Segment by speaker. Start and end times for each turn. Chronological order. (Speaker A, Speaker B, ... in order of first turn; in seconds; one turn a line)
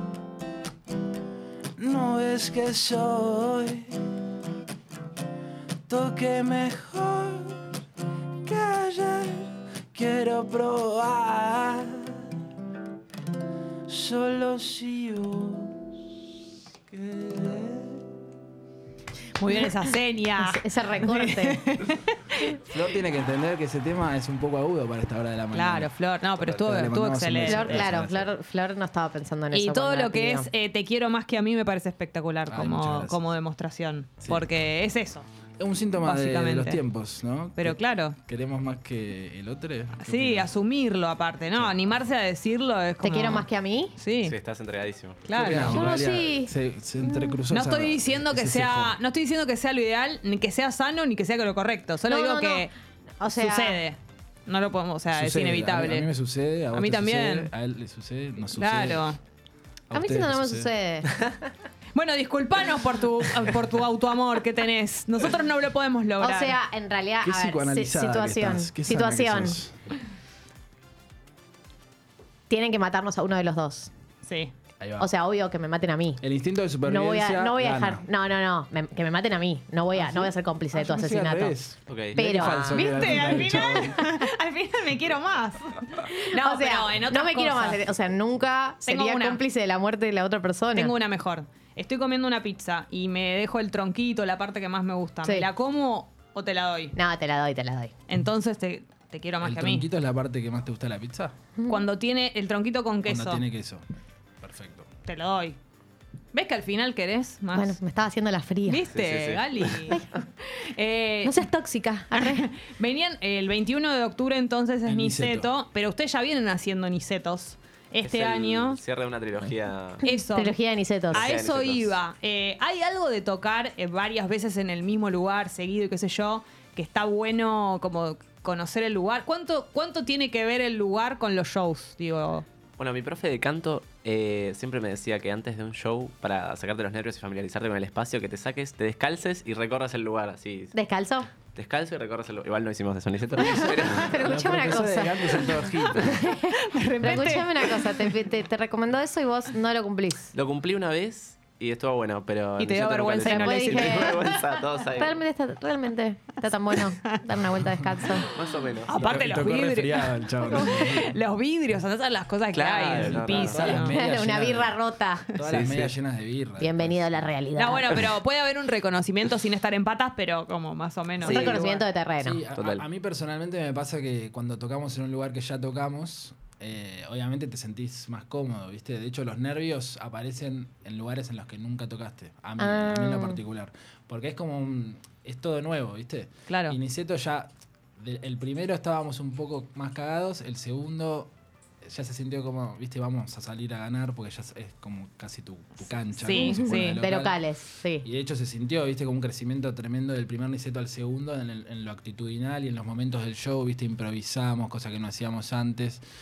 Speaker A: 1.8-3.9
Speaker A: 5.9-7.6
Speaker A: 8.4-12.2
Speaker A: 13.9-16.0
Speaker A: 16.9-18.0
Speaker B: 19.4-22.5
Speaker C: 20.4-21.6
Speaker D: 22.7-28.3
Speaker B: 25.5-27.9
Speaker C: 27.5-30.5
Speaker B: 29.5-35.3
Speaker D: 32.5-33.2
Speaker D: 35.6-40.5
Speaker B: 36.0-36.8
Speaker B: 37.6-38.2
Speaker B: 40.0-44.4
Speaker D: 41.6-42.0
Speaker C: 43.0-44.0
Speaker E: 44.2-45.3
Speaker B: 45.3-45.9
Speaker D: 45.3-49.0
Speaker C: 45.5-47.4
Speaker B: 47.5-52.7
Speaker C: 52.1-52.7
Speaker C: 53.2-53.8
Speaker B: 53.4-56.1
Speaker D: 55.1-59.1
Speaker B: 56.7-57.5
Speaker B: 58.5-59.2
Speaker D: 59.9-60.7
Speaker C: 59.9-61.1
Speaker B: 62.0-66.6
Speaker C: 66.2-69.6
Speaker D: 67.2-69.7
Speaker C: 72.5-73.9
Speaker B: 74.2-74.5
Speaker D: 74.8-75.1
Speaker C: 75.0-76.2
Speaker D: 76.2-78.0
Speaker C: 76.8-81.6
Speaker D: 80.0-84.0
Speaker E: 81.9-82.5
Speaker C: 82.2-82.8
Speaker B: 82.7-87.8
Speaker C: 86.3-90.9
Speaker B: 88.9-89.4
Speaker B: 90.8-97.0
Speaker C: 97.0-97.9
Speaker B: 98.1-99.9
Speaker D: 99.4-101.3
Speaker C: 101.6-101.8
Speaker B: 101.7-103.4
Speaker D: 103.0-103.8
Speaker D: 104.4-104.9
Speaker B: 105.1-105.6
Speaker B: 106.3-107.8
Speaker C: 107.5-108.9
Speaker B: 108.7-110.0
Speaker E: 108.9-109.8
Speaker B: 110.6-111.4
Speaker C: 111.2-112.5
Speaker B: 112.1-118.8
Speaker D: 114.9-115.5
Speaker E: 118.0-120.0
Speaker B: 120.0-120.6
Speaker C: 120.0-121.3
Speaker E: 121.1-122.0
Speaker B: 121.1-132.4
Speaker E: 132.8-140.8
Speaker C: 140.7-141.3
Speaker E: 141.5-144.1
Speaker C: 143.6-145.4
Speaker D: 144.1-146.2
Speaker C: 146.0-150.3
Speaker B: 146.6-148.1
Speaker E: 150.3-155.2
Speaker B: 152.6-154.4
Speaker C: 153.2-154.4
Speaker C: 154.9-158.3
Speaker E: 158.3-158.9
Speaker B: 158.9-164.0
Speaker D: 158.9-161.1
Speaker E: 162.5-163.9
Speaker D: 162.9-164.8
Speaker C: 163.9-165.3
Speaker D: 165.3-167.3
Speaker E: 165.4-165.9
Speaker C: 166.6-168.1
Speaker B: 167.6-171.8
Speaker C: 171.2-172.4
Speaker D: 171.2-191.3
Speaker E: 172.5-172.8
Speaker C: 182.6-183.4
Speaker B: 186.5-186.8
Speaker D: 191.8-197.4
Speaker B: 196.2-197.0
Speaker C: 196.3-198.1
Speaker D: 198.0-206.0